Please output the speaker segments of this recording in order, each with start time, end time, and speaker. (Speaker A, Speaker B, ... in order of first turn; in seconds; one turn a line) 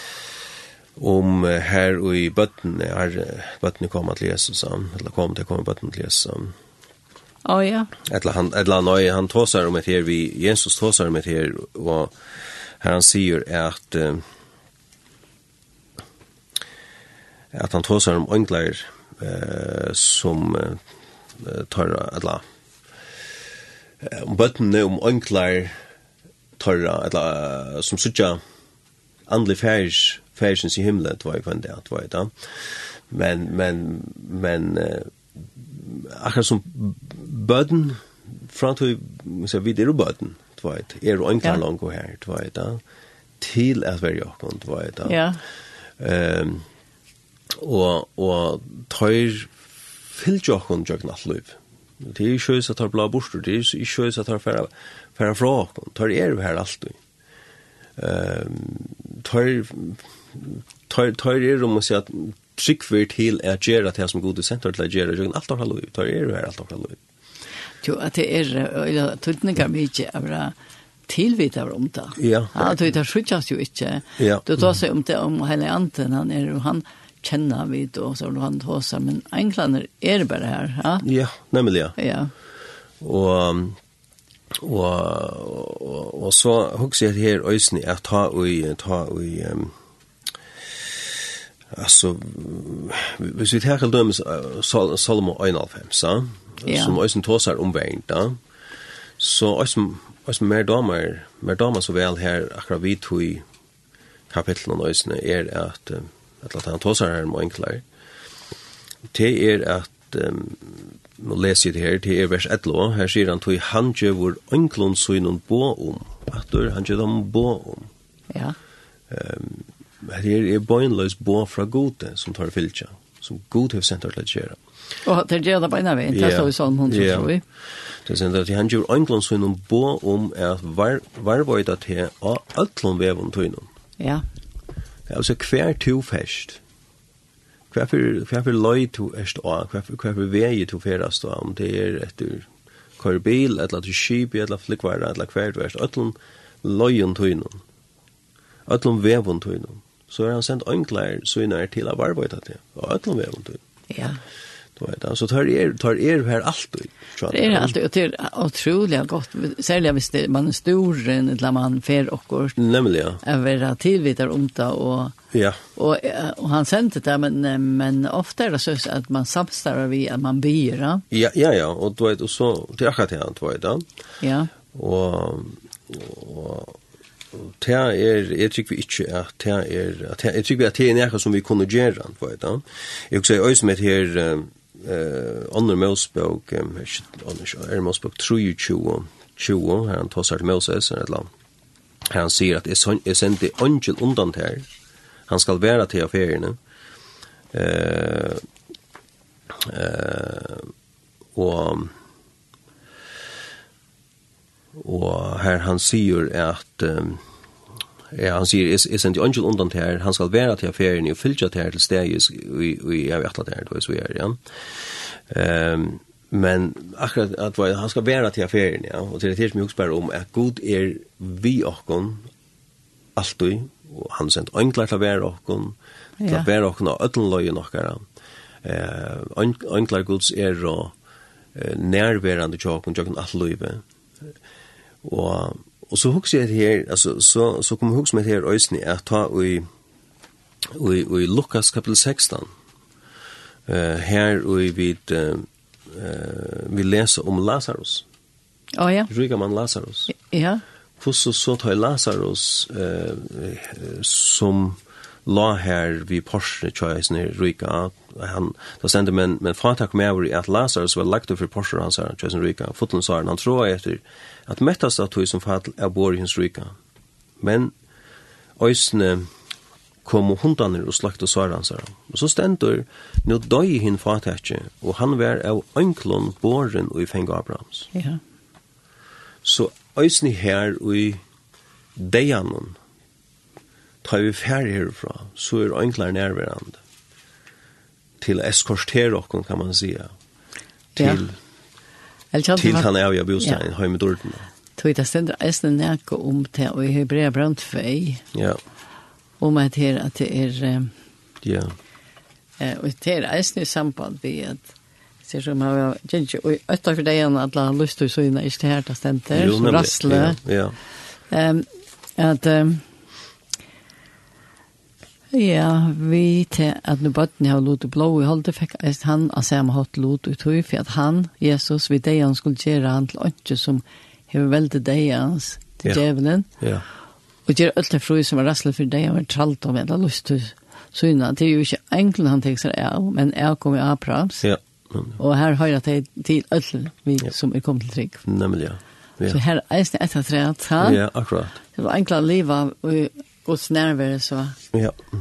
Speaker A: 1.0-6.5
Speaker B: 7.5-7.9
Speaker A: 8.1-12.2
Speaker A: 12.8-14.2
Speaker A: 17.5-20.8
Speaker A: 21.4-22.4
Speaker A: 24.0-25.8
Speaker A: 26.6-28.4
Speaker A: 29.3-42.8
Speaker A: 43.4-45.2
Speaker B: 45.1-45.4
Speaker A: 46.0-46.7
Speaker A: 47.5-49.5
Speaker A: 50.1-57.0
Speaker A: 58.0-67.0
Speaker B: 67.8-70.5
Speaker B: 71.1-81.0
Speaker A: 72.2-72.8
Speaker A: 74.2-74.7
Speaker A: 81.0-82.0
Speaker B: 82.0-82.3
Speaker A: 83.0-83.8
Speaker A: 84.6-89.7
Speaker A: 91.7-98.4
Speaker B: 96.7-97.0
Speaker A: 99.2-103.5
Speaker A: 104.3-107.8
Speaker A: 109.1-117.9
Speaker B: 118.3-118.6
Speaker A: 119.1-124.6
Speaker B: 125.0-127.4
Speaker A: 126.1-127.3
Speaker A: 128.1-133.7
Speaker B: 134.0-134.2
Speaker A: 135.1-136.6
Speaker A: 137.7-142.5
Speaker A: 143.0-147.6
Speaker A: 148.7-153.6
Speaker B: 153.9-154.2
Speaker A: 154.8-157.8
Speaker B: 157.3-162.6
Speaker A: 162.6-163.2
Speaker B: 163.2-165.2
Speaker A: 165.3-165.6
Speaker B: 165.8-171.0
Speaker A: 171.1-173.8
Speaker B: 174.2-174.5
Speaker A: 174.7-176.8
Speaker A: 177.3-191.3
Speaker A: 192.1-194.7
Speaker A: 195.3-196.6
Speaker A: 197.5-198.4
Speaker A: 199.6-200.7
Speaker A: 201.3-201.9
Speaker A: 204.8-207.2
Speaker A: 208.1-222.3
Speaker A: 223.2-228.0
Speaker B: 226.2-226.5
Speaker A: 228.6-230.9
Speaker A: 231.6-233.8
Speaker A: 235.0-239.7
Speaker A: 240.7-242.5
Speaker A: 243.7-248.1
Speaker B: 248.8-249.1
Speaker A: 249.1-250.1
Speaker B: 250.1-250.6
Speaker A: 251.0-266.8
Speaker A: 267.4-267.7
Speaker A: 268.6-269.3
Speaker A: 270.1-277.9
Speaker B: 277.9-278.2
Speaker A: 279.4-281.2
Speaker A: 282.0-282.8
Speaker A: 284.0-286.8
Speaker A: 288.2-290.1
Speaker B: 291.0-291.2
Speaker A: 291.0-291.4
Speaker B: 292.3-293.6
Speaker A: 292.6-294.5
Speaker B: 294.8-298.2
Speaker A: 298.3-298.6
Speaker B: 299.4-300.9
Speaker A: 301.4-301.8
Speaker B: 302.6-304.7
Speaker B: 305.2-310.4
Speaker A: 309.3-310.8
Speaker B: 311.3-312.8
Speaker B: 315.3-326.5
Speaker A: 326.6-326.9
Speaker B: 327.5-334.4
Speaker A: 334.4-335.2
Speaker B: 335.2-338.2
Speaker A: 338.2-339.4
Speaker B: 339.3-341.0
Speaker A: 340.8-341.6
Speaker B: 341.8-344.6
Speaker A: 344.7-345.0